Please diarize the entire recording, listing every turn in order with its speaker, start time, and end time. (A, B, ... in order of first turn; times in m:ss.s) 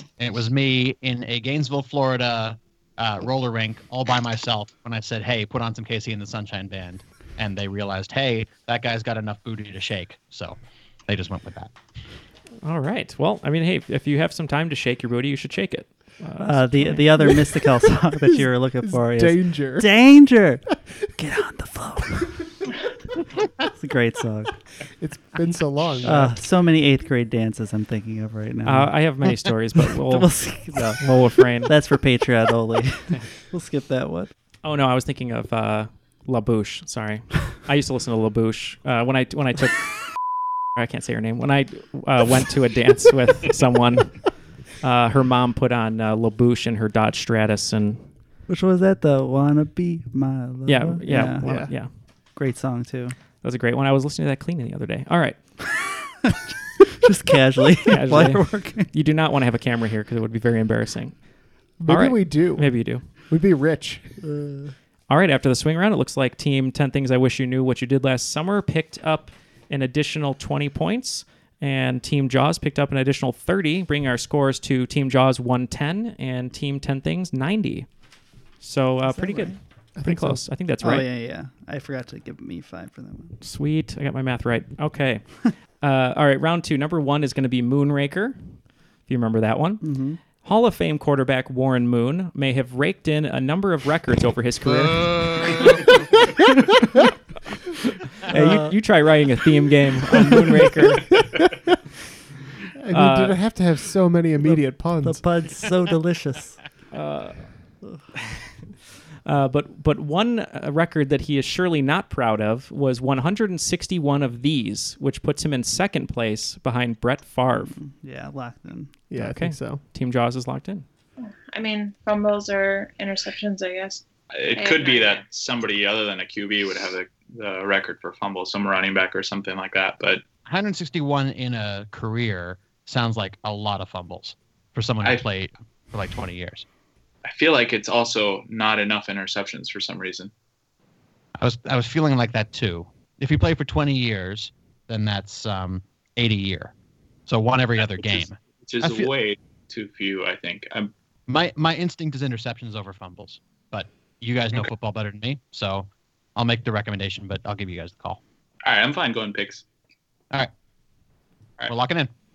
0:00.2-0:11.7 A
0:12.6-0:17.0 B
0:16.4-0:20.6 C
0:16.5-0:19.9 D
0:21.2-0:22.3 C
0:23.7-0:24.5 C
0:25.0-0:26.3 D
0:26.0-0:29.1 C
0:28.6-0:31.7 B
0:29.8-0:34.3 C
0:34.6-0:40.1 B
0:40.8-0:48.0 B
0:48.5-0:51.7 C
0:50.6-0:51.9 B
0:51.4-0:51.7 D
0:52.4-0:53.1 C
0:53.4-0:55.4 B
0:57.0-0:58.9 C
0:57.9-1:01.2 B
1:01.8-1:04.2 D
1:01.9-1:03.0 B
1:04.2-1:04.7 C
1:05.1-1:17.9 B
1:18.6-1:21.0 B
1:19.0-1:19.6 C
1:20.0-1:20.4 D
1:20.8-1:23.3 C
1:23.4-1:35.7 B
1:29.8-1:30.2 C
1:35.4-1:35.8 C
1:38.2-1:38.8 C
1:38.3-1:41.2 B
1:42.8-1:45.2 D
1:42.9-1:43.4 B
1:44.4-1:46.6 C
1:46.9-1:47.5 B
1:49.2-1:57.8 B
1:57.5-1:59.0 C
1:59.1-1:59.8 D
1:59.2-2:00.8 B
2:01.2-2:05.2 E
2:04.3-2:10.2 F
2:10.4-2:16.6 A
2:17.2-2:20.3 F
2:21.4-2:26.7 A
2:27.3-2:29.1 A
2:28.0-2:30.9 F
2:31.3-2:38.2 A
2:38.6-2:39.6 F
2:41.6-2:42.1 A